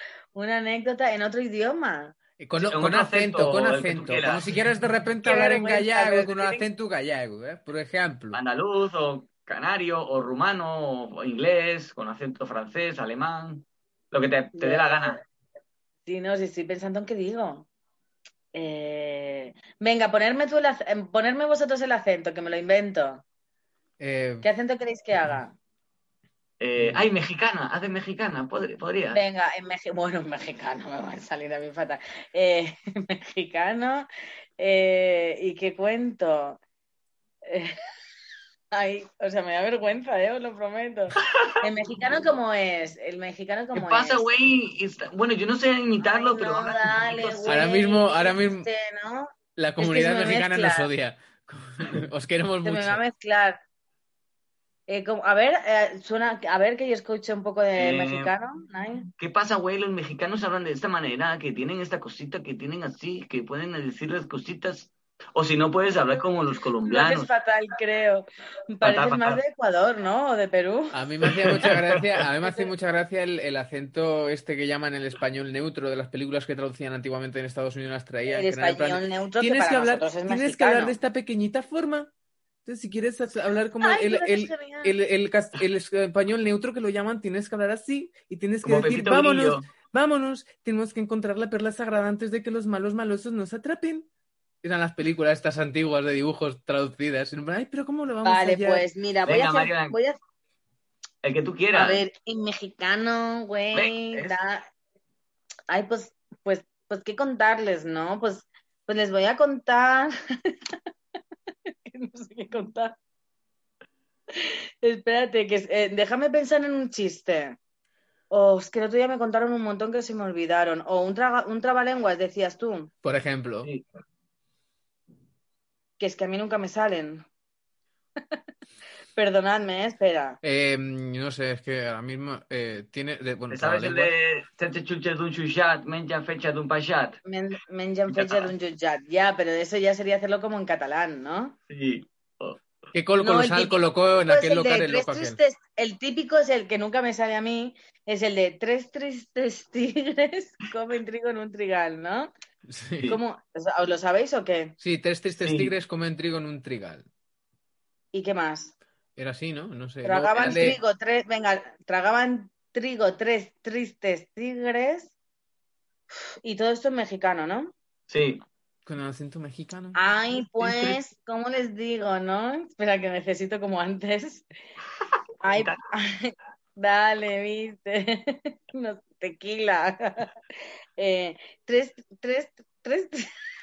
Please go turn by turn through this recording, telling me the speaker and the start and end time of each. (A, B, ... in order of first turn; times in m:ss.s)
0:00.3-0:02.1 A
0:02.4-0:08.4 B
0:02.6-0:04.4 C
0:05.2-0:06.6 A
0:08.3-0:15.2 C
0:14.6-0:15.2 A
0:16.0-0:17.7 A
0:18.5-0:23.2 A
0:24.0-0:24.5 B
0:24.4-0:25.5 A
0:26.6-0:29.2 C
0:29.1-0:34.1 A
0:34.6-0:36.6 A
0:37.4-0:37.8 A
0:38.7-0:44.2 A
0:41.2-0:41.5 C
0:43.7-0:47.7 C
0:46.0-0:50.9 A
0:47.4-0:48.7 B
0:49.6-0:53.0 B
0:52.6-0:53.6 A
0:54.9-0:59.1 A
0:57.8-0:58.3 C
0:59.2-1:07.3 C
1:06.8-1:11.0 A
1:08.8-1:09.4 C
1:10.9-1:22.1 B
1:11.4-1:12.0 C
1:18.2-1:21.0 A
1:22.6-1:34.1 B
1:23.8-1:24.9 A
1:28.6-1:29.7 C
1:34.6-1:38.8 B
1:38.2-1:40.2 A
1:39.3-1:40.0 C
1:41.2-1:42.0 C
1:41.7-1:44.7 A
1:43.7-1:44.4 C
1:45.7-1:50.5 A
1:51.9-1:53.0 A
1:54.3-1:57.6 A
1:58.3-2:02.9 A
2:03.0-2:03.7 B
2:06.0-2:07.2 A
2:09.1-2:10.4 A
2:10.4-2:14.1 B
2:13.5-2:17.2 C
2:17.2-2:21.6 A
2:18.1-2:18.5 C
2:21.7-2:22.6 C
2:22.9-2:25.4 B
2:23.2-2:32.3 A
2:32.7-2:33.1 B
2:33.1-2:34.7 A
2:34.8-2:37.1 B
2:35.4-2:35.7 C
2:38.1-2:38.7 A
2:39.2-2:40.8 B
2:40.0-2:45.1 A
2:40.4-2:40.8 C
2:46.1-2:47.7 A
2:48.1-2:48.4 C
2:48.8-2:50.0 B
2:49.9-2:54.4 A
2:55.4-3:00.3 A
2:55.5-2:55.8 C
3:01.0-3:03.3 A